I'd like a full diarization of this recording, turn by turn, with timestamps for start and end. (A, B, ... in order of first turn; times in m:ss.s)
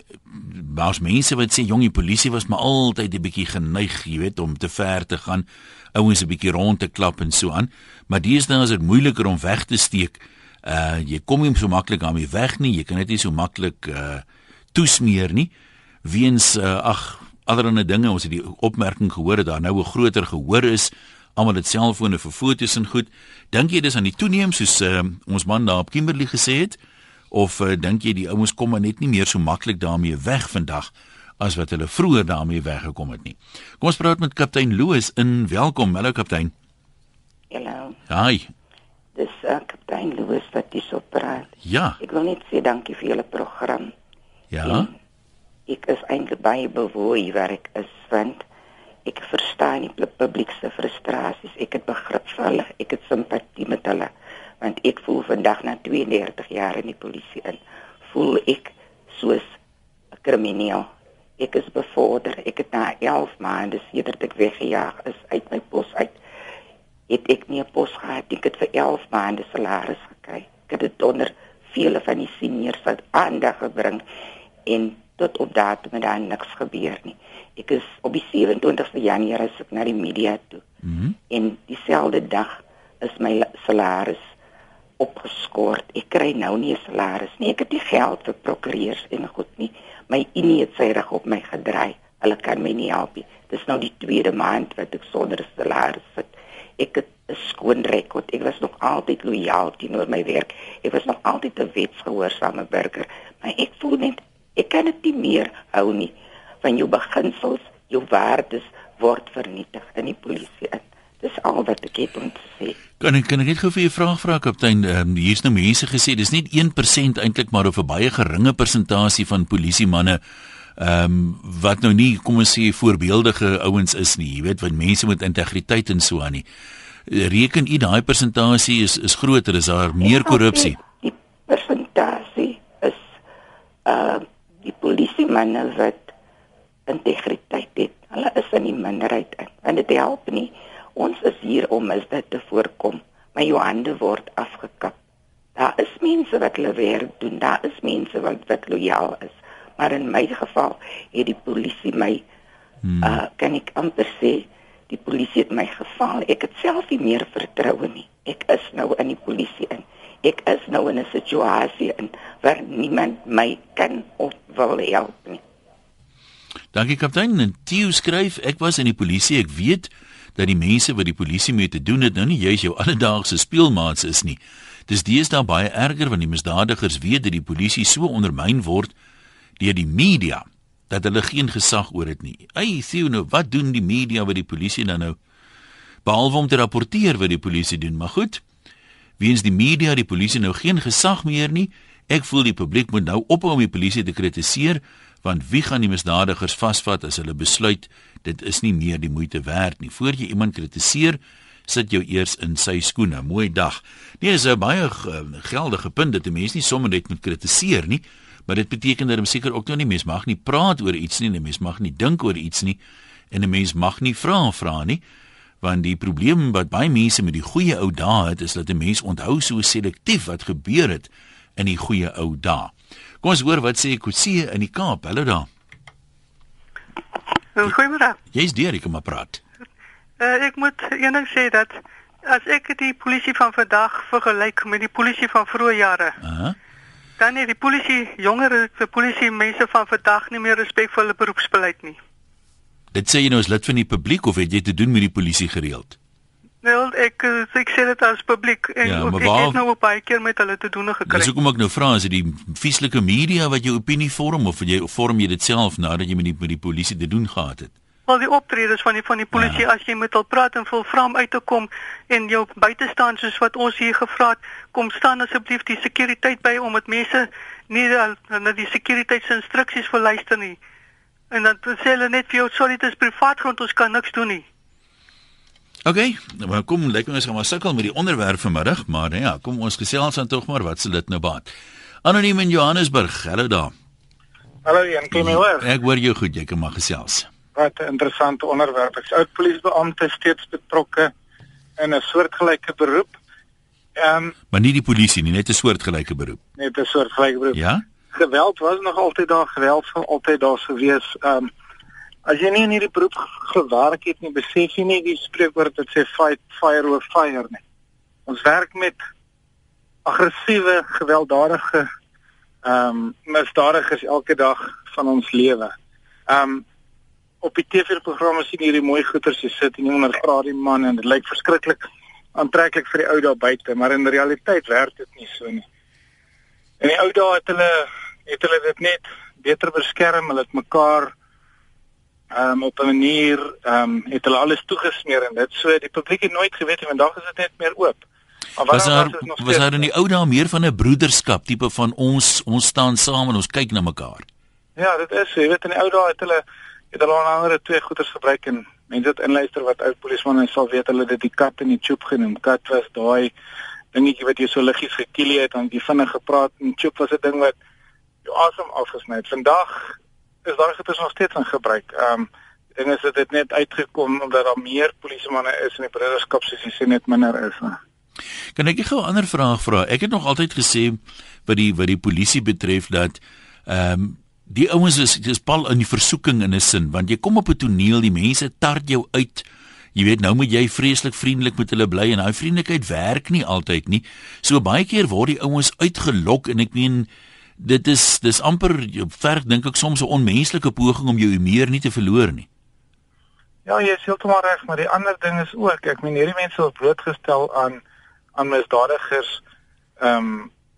0:00.3-0:15.5 A
0:16.0-0:26.8 A
0:27.3-0:36.5 A
0:37.5-0:38.0 B
0:38.1-0:38.5 A
0:39.2-0:43.9 B
0:41.6-0:42.0 A
0:44.5-0:44.9 A
0:44.6-0:44.9 B
0:45.7-0:48.4 B
0:49.0-0:59.6 B
1:00.2-1:06.2 B
1:07.1-1:14.0 B
1:14.7-1:20.6 B
1:20.8-1:21.2 A
1:21.3-1:24.3 B
1:25.0-1:52.8 B
1:53.0-2:00.2 A
2:00.8-2:06.4 A
2:07.1-2:10.8 A
2:10.0-2:13.0 B
2:13.9-2:16.1 B
2:16.9-2:25.0 B
2:25.6-2:32.2 B
2:32.9-2:33.2 A
2:33.0-2:45.4 B
2:46.7-2:58.9 A
2:59.6-3:05.2 A
3:06.0-3:08.4 A
3:09.2-3:32.8 A
3:33.3-3:35.0 A
3:35.6-3:45.5 A
3:47.6-3:48.2 C
3:48.3-3:49.4 A
3:50.2-3:56.2 C
3:56.2-3:56.6 A
3:57.2-4:02.0 C
4:02.9-4:06.0 A
4:06.6-4:11.3 C
4:08.8-4:09.6 A
4:11.1-4:17.7 A
4:18.1-4:30.6 C
4:19.3-4:19.6 A
4:31.3-4:34.4 C
4:35.8-4:41.5 A
4:42.0-4:43.7 A
4:44.6-4:45.7 D
4:45.1-4:47.3 A
4:47.6-4:51.1 D
4:51.8-4:53.2 D
4:54.0-4:54.4 D
4:54.5-4:56.4 A
4:56.6-4:57.6 D
4:57.5-4:57.8 A
4:58.1-5:01.5 D
5:02.3-5:07.6 D
5:08.3-5:09.0 D
5:10.1-5:11.9 D
5:12.6-5:15.7 D
5:16.3-5:16.6 D
5:17.4-5:25.6 D
5:26.8-5:31.1 D
5:32.3-5:38.0 D
5:38.6-5:39.8 D
5:38.7-5:44.3 A
5:44.8-5:53.3 D
5:53.9-5:57.6 D
5:58.2-6:07.8 D
6:08.6-6:27.1 A
6:27.6-6:32.5 A
6:33.6-6:37.8 D
6:38.4-6:39.4 D
6:40.0-6:40.5 D